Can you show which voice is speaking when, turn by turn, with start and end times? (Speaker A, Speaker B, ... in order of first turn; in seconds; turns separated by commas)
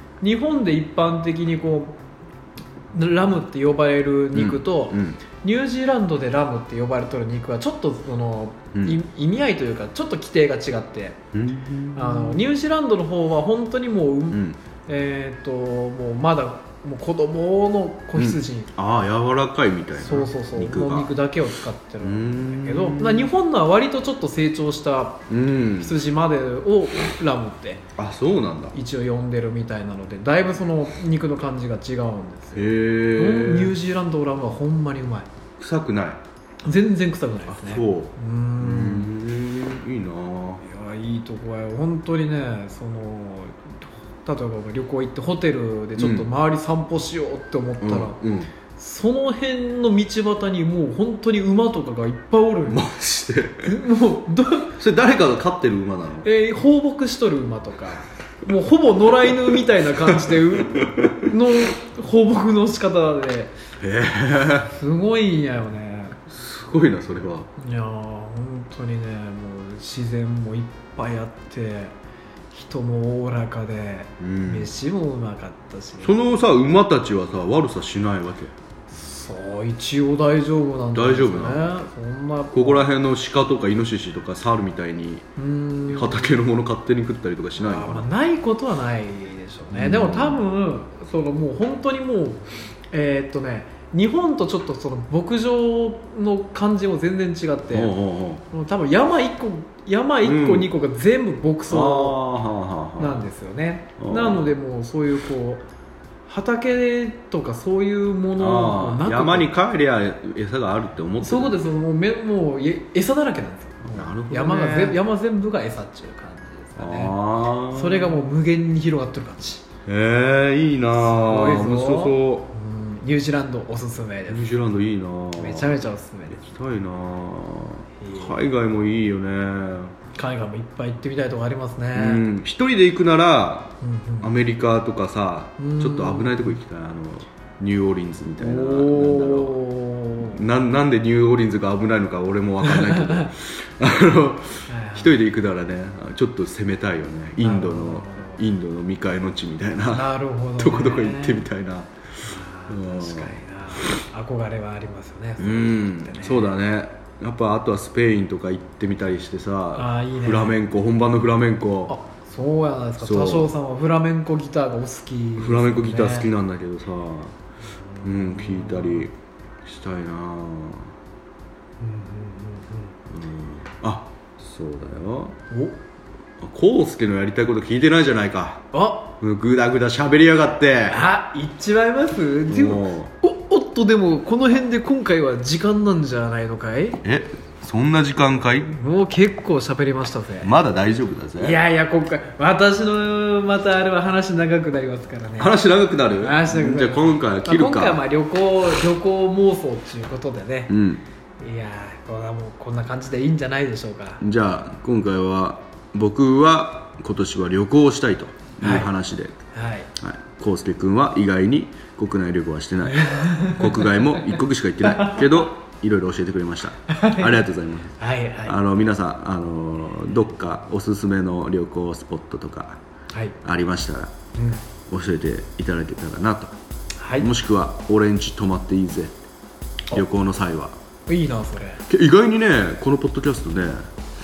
Speaker A: 0.2-2.0, Speaker A: 2.9-11.2, Speaker B: 4.3-5.2, Speaker B: 8.7-9.0, Speaker B: 11.3-12.5, Speaker A: 11.9-18.7, Speaker B: 14.3-14.6, Speaker B: 18.1-21.1, Speaker A: 20.0-25.2, Speaker B: 22.0-23.3, Speaker B: 25.3-26.0, Speaker A: 25.8-27.8, Speaker B: 28.0-28.8, Speaker A: 28.7-35.3, Speaker B: 32.5-33.8, Speaker B: 35.6-36.2, Speaker A: 36.6-39.1, Speaker B: 37.5-40.6, Speaker A: 40.6-52.9, Speaker B: 46.0-46.3, Speaker B: 47.8-48.5, Speaker B: 52.7-53.7, Speaker A: 53.6-54.8, Speaker B: 54.7-56.3, Speaker A: 56.2-63.5, Speaker B: 60.0-61.3, Speaker B: 63.8-64.7, Speaker A: 64.7-66.2, Speaker B: 66.3-67.5, Speaker A: 67.6-71.9, Speaker A: 72.5-76.2, Speaker B: 74.2-74.7, Speaker B: 76.0-78.5, Speaker A: 78.9-82.9, Speaker B: 80.9-81.8, Speaker B: 82.5-85.3, Speaker A: 85.4-86.4, Speaker B: 85.9-88.1, Speaker A: 87.6-98.0, Speaker B: 89.7-90.4, Speaker B: 97.7-98.4, Speaker A: 98.5-102.2, Speaker B: 100.2-100.7, Speaker B: 101.7-103.2, Speaker A: 103.0-105.7, Speaker B: 104.0-104.5, Speaker A: 106.3-109.5, Speaker B: 108.4-111.6, Speaker A: 111.2-117.2, Speaker B: 113.8-115.0, Speaker B: 116.8-118.2, Speaker A: 117.7-119.6, Speaker B: 119.8-122.5, Speaker A: 120.9-124.5, Speaker B: 124.3-125.8, Speaker A: 125.3-126.4, Speaker B: 126.3-129.9, Speaker A: 128.0-128.4, Speaker A: 130.1-132.2, Speaker B: 131.9-139.6, Speaker A: 133.8-134.3, Speaker A: 135.6-136.6, Speaker A: 138.4-140.4, Speaker B: 140.2-153.4, Speaker A: 142.6-143.3, Speaker A: 144.7-145.2, Speaker A: 147.4-148.4, Speaker A: 149.9-151.5, Speaker A: 152.2-156.5, Speaker B: 155.4-161.9, Speaker A: 159.7-160.6, Speaker A: 161.9-166.3, Speaker B: 163.0-163.5, Speaker B: 165.4-167.3, Speaker A: 167.9-169.1, Speaker B: 168.0-170.9, Speaker A: 171.8-172.9, Speaker B: 173.1-175.4, Speaker A: 175.5-175.8, Speaker B: 176.4-178.6, Speaker A: 178.7-179.1, Speaker B: 179.2-181.1, Speaker A: 180.9-187.0, Speaker B: 182.5-183.1, Speaker B: 187.0-188.7, Speaker A: 188.6-190.5, Speaker B: 190.4-191.6, Speaker A: 191.4-195.6, Speaker B: 195.4-198.0, Speaker A: 196.2-200.8, Speaker B: 200.7-201.0, Speaker A: 201.4-204.2, Speaker B: 204.2-209.4, Speaker A: 208.6-208.9, Speaker A: 209.5-209.9, Speaker B: 210.0-222.8, Speaker A: 212.8-215.4, Speaker A: 216.9-217.4, Speaker A: 218.0-218.6, Speaker B: 223.4-224.1, Speaker A: 224.3-224.6, Speaker B: 224.9-226.6, Speaker A: 227.0-227.3, Speaker B: 227.2-229.1, Speaker B: 229.9-230.8, Speaker A: 231.1-231.8, Speaker B: 231.9-233.9